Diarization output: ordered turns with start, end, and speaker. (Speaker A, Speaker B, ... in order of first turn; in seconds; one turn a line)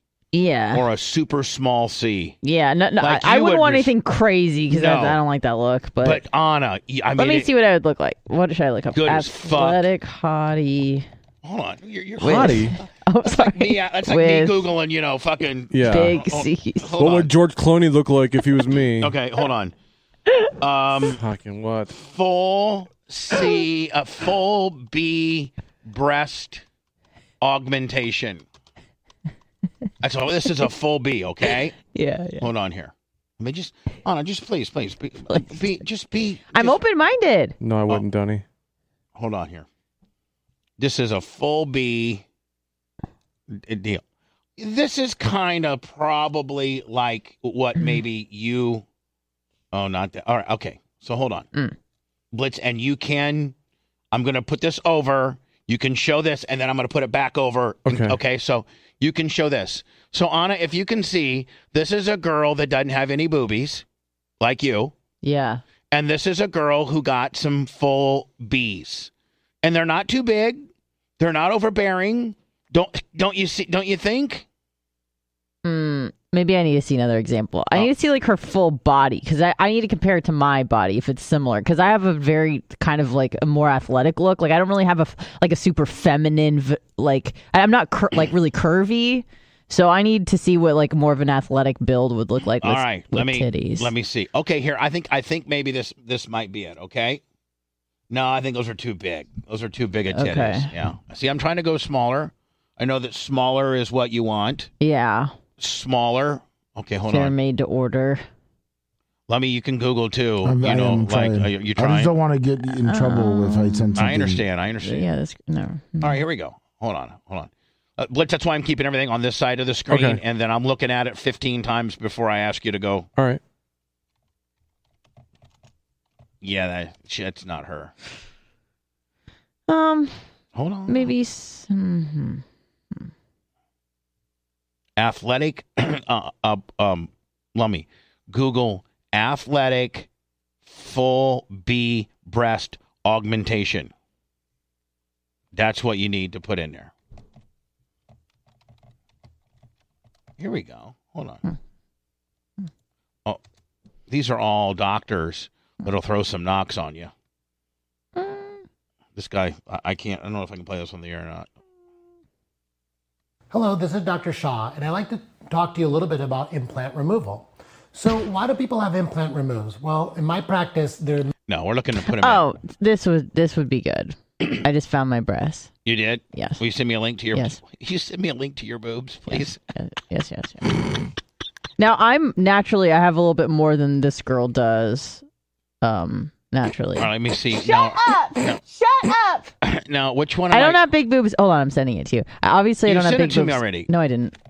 Speaker A: 0.3-0.8
Speaker B: 0.7-2.4
Speaker A: 2.4-6.2
Speaker B: 3.0-3.9
Speaker B: 4.7-5.2
Speaker B: 6.0-7.5
Speaker A: 7.2-11.1
Speaker B: 8.9-9.8
Speaker B: 11.4-12.7
Speaker A: 12.2-14.7
Speaker C: 12.2-12.8
Speaker B: 13.3-17.3
Speaker C: 15.7-16.2
Speaker A: 15.8-16.9
Speaker C: 17.0-19.1
Speaker B: 19.0-19.7
Speaker B: 20.6-21.2
Speaker C: 21.1-22.0
Speaker B: 22.0-26.6
Speaker B: 27.4-28.4
Speaker B: 30.0-31.8
Speaker A: 31.9-32.5
Speaker B: 32.4-36.8
Speaker A: 36.5-37.6
Speaker C: 37.6-38.4
Speaker B: 39.2-39.7
Speaker B: 40.8-42.2
Speaker B: 43.5-44.0
Speaker B: 44.6-48.9
Speaker B: 49.7-51.5
Speaker B: 52.3-53.5
Speaker B: 54.1-63.8
Speaker C: 57.9-58.2
Speaker B: 64.4-64.9
Speaker A: 65.2-65.6
Speaker B: 65.9-69.1
Speaker B: 69.6-70.7
Speaker B: 71.2-74.5
Speaker A: 75.7-93.9
Speaker B: 92.6-97.2
Speaker B: 98.1-104.7
Speaker A: 100.1-100.7
Speaker A: 104.8-105.3
Speaker B: 105.6-107.4
Speaker A: 107.1-108.2
Speaker B: 109.3-112.1
Speaker D: 110.4-114.4
Speaker A: 112.8-114.1
Speaker B: 114.0-115.1
Speaker A: 114.8-116.2
Speaker B: 116.0-123.1
Speaker C: 119.9-120.2
Speaker B: 126.4-127.9
Speaker A: 129.7-130.2
Speaker B: 130.5-131.1
Speaker A: 130.9-132.4
Speaker B: 135.0-140.1
Speaker B: 140.7-143.9
Speaker B: 145.5-146.9
Speaker B: 150.4-151.4
Speaker B: 154.1-157.1
Speaker A: 158.2-158.6
Speaker B: 159.2-161.5
Speaker E: 163.5-171.3
Speaker B: 171.5-172.5
Speaker A: 172.1-175.7
Speaker B: 175.9-179.6
Speaker A: 176.3-176.6
Speaker A: 177.3-177.6
Speaker A: 179.3-180.8
Speaker A: 181.8-185.2
Speaker A: 185.8-189.5
Speaker B: 187.0-188.6
Speaker B: 189.6-190.8
Speaker A: 190.5-194.3
Speaker B: 192.8-193.9